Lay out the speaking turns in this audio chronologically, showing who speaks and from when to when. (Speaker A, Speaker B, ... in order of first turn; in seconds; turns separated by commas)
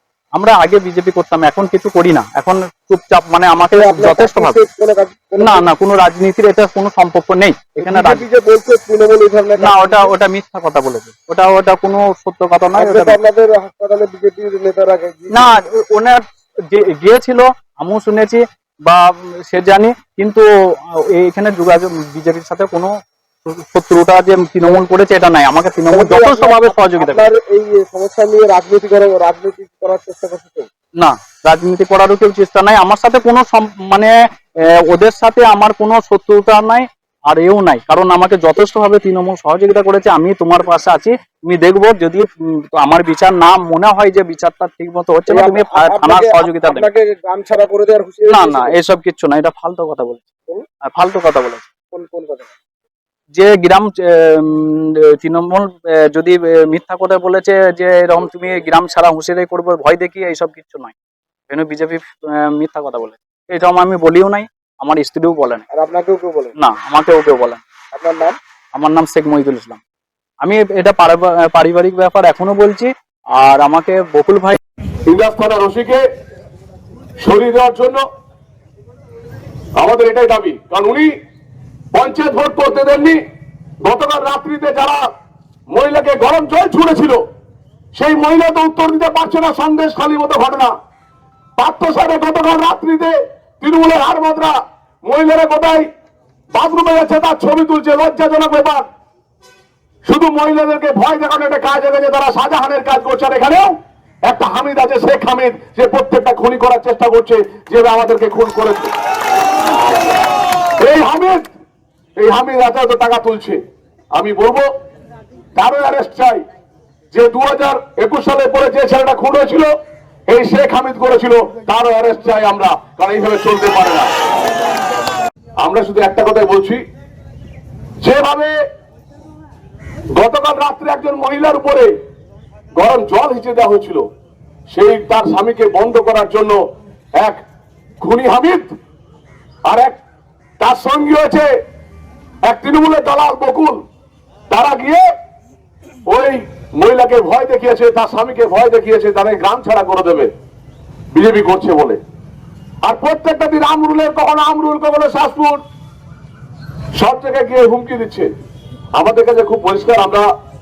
Speaker A: 0.3-4.6, Speaker B: 3.7-5.7, Speaker A: 5.4-8.2, Speaker B: 7.8-10.1, Speaker A: 9.6-13.2, Speaker B: 12.8-15.5, Speaker A: 15.3-20.4, Speaker A: 21.2-22.9, Speaker A: 23.5-27.3, Speaker B: 25.9-30.7, Speaker A: 31.0-34.1, Speaker A: 34.9-46.9, Speaker B: 45.3-48.8, Speaker A: 48.3-50.3, Speaker A: 50.9-51.7, Speaker B: 51.9-52.5, Speaker A: 53.3-61.0, Speaker A: 61.5-65.7, Speaker B: 65.7-66.5, Speaker A: 66.6-67.6, Speaker B: 67.9-68.4, Speaker A: 68.7-69.8, Speaker A: 70.4-74.6, Speaker C: 75.1-76.0, Speaker C: 77.2-78.0, Speaker C: 79.8-81.1, Speaker C: 81.9-83.2, Speaker C: 83.8-85.0, Speaker C: 85.7-87.2, Speaker C: 88.0-90.7, Speaker C: 91.6-95.8, Speaker C: 96.5-98.8, Speaker C: 100.0-103.7, Speaker C: 104.3-108.9, Speaker C: 110.8-111.5, Speaker C: 112.2-113.6, Speaker C: 114.2-114.7, Speaker C: 115.6-116.4, Speaker C: 117.1-119.7, Speaker C: 120.3-124.1, Speaker C: 125.6-126.8, Speaker C: 128.0-128.5, Speaker C: 130.2-131.9, Speaker C: 132.8-134.0, Speaker C: 134.7-136.6, Speaker C: 138.0-138.7, Speaker C: 139.7-140.0, Speaker C: 140.6-141.5, Speaker C: 142.4-143.8, Speaker C: 144.5-145.0, Speaker C: 146.1-150.3, Speaker C: 151.1-152.0, Speaker C: 152.8-155.6, Speaker C: 157.0-158.3, Speaker C: 159.0-160.3